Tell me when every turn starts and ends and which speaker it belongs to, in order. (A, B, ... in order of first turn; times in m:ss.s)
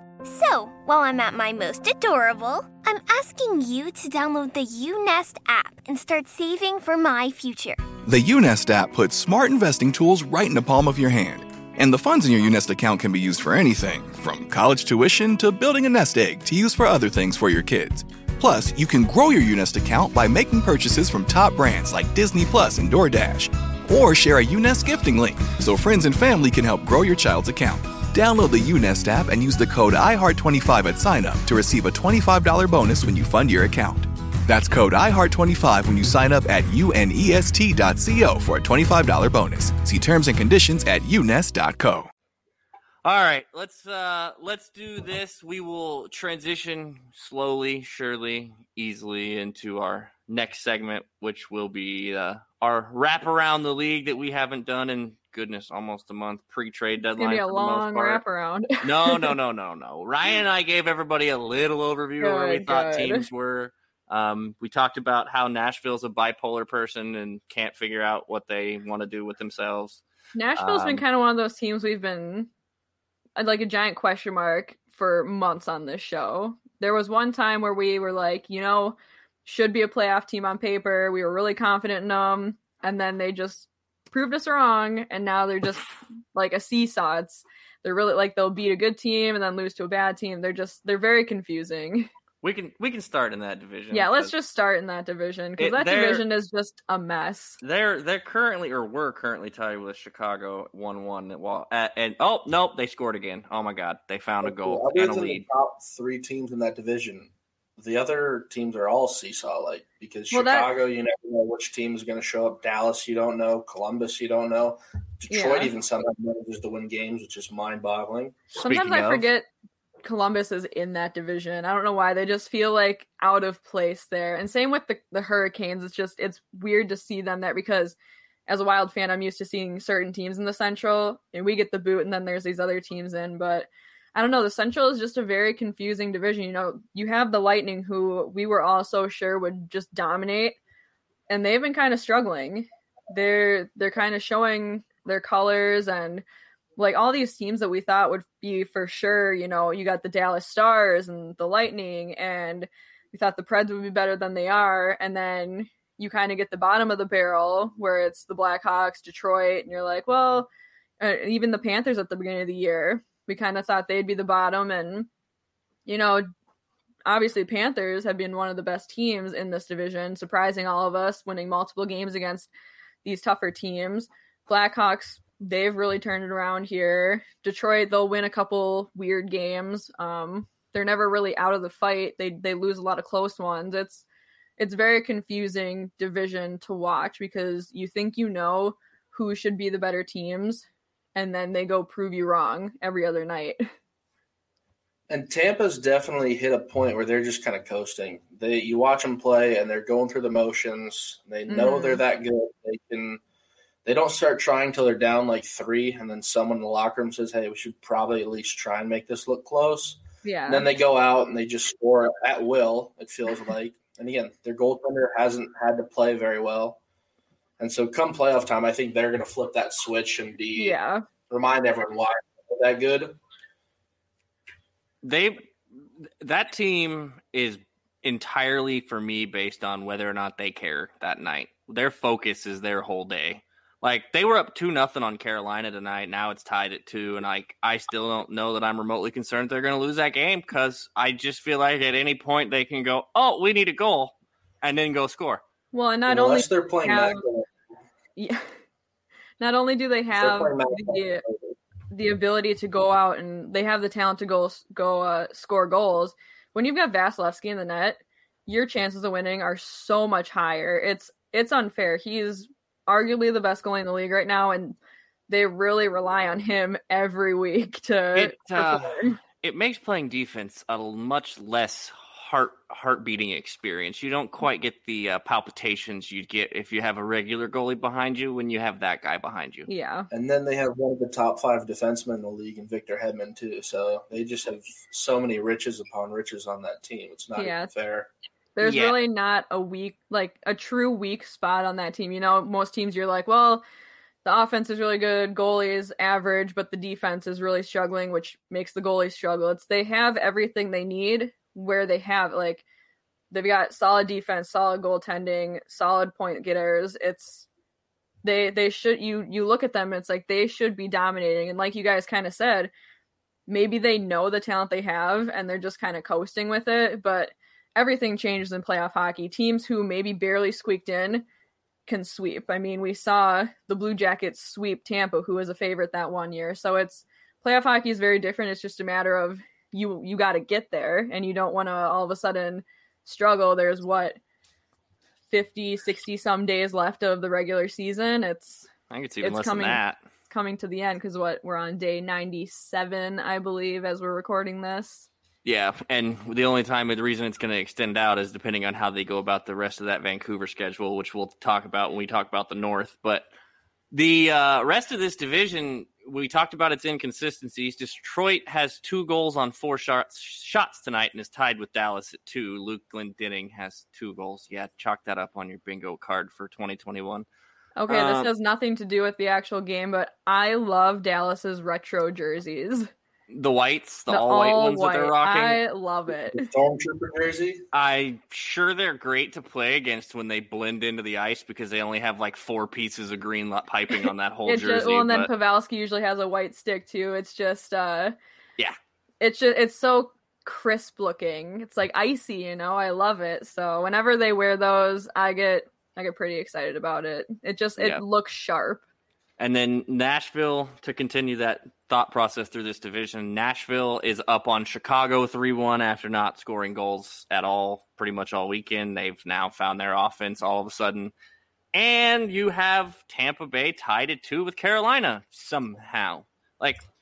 0:00.2-0:07.8 A
0:08.0-0:42.1 B
0:43.0-0:58.2 C
0:57.2-0:59.3 D
0:58.8-1:10.0 C
1:02.2-1:03.3 D
1:10.4-1:12.5 D
1:10.6-1:11.0 C
1:13.4-1:32.1 D
1:32.4-1:34.3 C
1:33.9-1:37.6 D
1:35.6-1:36.2 C
1:37.6-1:45.4 C
1:44.4-1:58.4 E
1:50.3-1:50.7 D
1:55.3-1:55.7 D
1:58.6-1:59.5 D
1:58.6-1:59.3 C
2:00.0-2:20.6 D
2:21.3-2:26.2 D
2:26.8-2:40.5 D
2:41.0-2:45.1 D
2:45.9-2:46.3 D
2:47.1-2:52.5 D
2:53.0-3:04.0 D
3:04.6-3:13.6 D
3:15.1-3:23.2 E
3:21.5-3:22.0 D
3:23.8-3:36.8 E
3:30.2-3:30.7 D
3:37.6-3:40.8 E
3:40.6-3:41.0 D
3:41.3-3:43.2 E
3:45.0-3:45.5 C
3:46.2-4:05.4 C
4:05.7-4:07.2 D
4:06.1-4:07.5 E
4:08.2-4:08.5 D
4:09.4-4:11.2 D
4:10.1-4:11.6 E
4:11.9-4:24.8 D
4:25.3-4:29.2 D
4:28.2-4:39.7 C
4:39.7-4:40.1 D
4:40.1-4:48.1 E
4:47.4-4:47.7 D
4:48.6-4:53.6 D
4:48.6-4:49.0 C
4:54.2-5:02.6 D
5:03.3-5:07.5 D
5:08.2-5:12.7 D
5:13.5-5:21.3 D
5:21.9-5:34.2 D
5:35.3-5:38.7 D
5:38.9-5:40.0 C
5:39.2-5:45.1 D
5:45.4-5:53.3 C
5:53.9-6:07.3 C
6:07.8-6:12.9 D
6:07.9-6:08.3 C
6:13.3-6:15.6 C
6:14.1-6:16.5 D
6:16.3-6:17.6 E
6:17.7-6:25.3 C
6:24.0-6:28.2 D
6:29.2-6:38.8 D
6:39.4-6:51.1 C
6:51.7-6:56.8 C